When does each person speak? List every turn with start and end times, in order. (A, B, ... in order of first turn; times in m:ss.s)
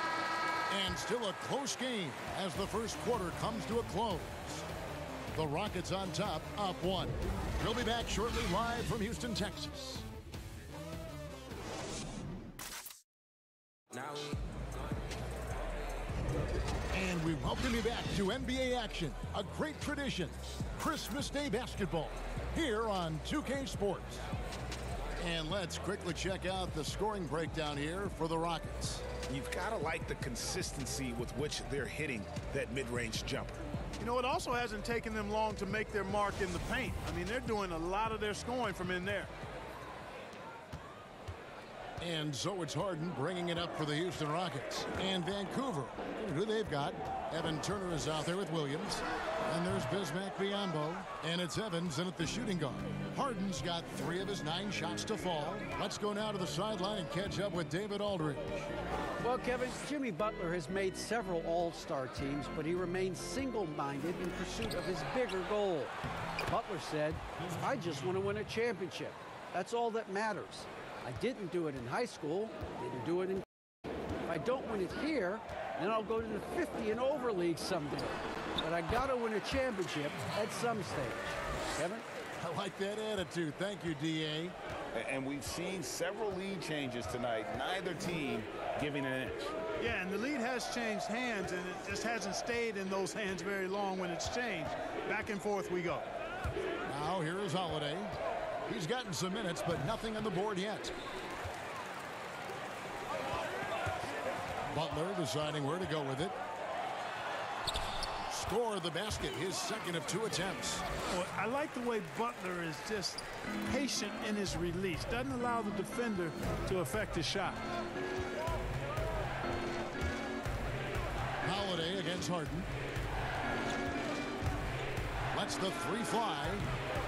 0:00.7-0:04.7 A
0:05.3-0:10.1 A
0:16.9-0:24.2 A
0:25.2-0:29.1 A
0:29.3-0:33.6 B
0:34.0-0:39.3 C
0:42.0-0:58.7 A
0:59.2-1:06.0 D
1:06.5-1:13.5 D
1:14.3-1:22.0 D
1:22.4-1:24.6 A
1:24.9-1:29.5 B
1:29.8-1:36.1 C
1:36.9-1:38.1 A
1:38.7-1:40.9 A
1:44.7-1:46.4 A
1:48.2-1:50.8 A
1:51.1-1:57.6 C
2:01.4-2:02.7 A
2:05.3-2:06.7 A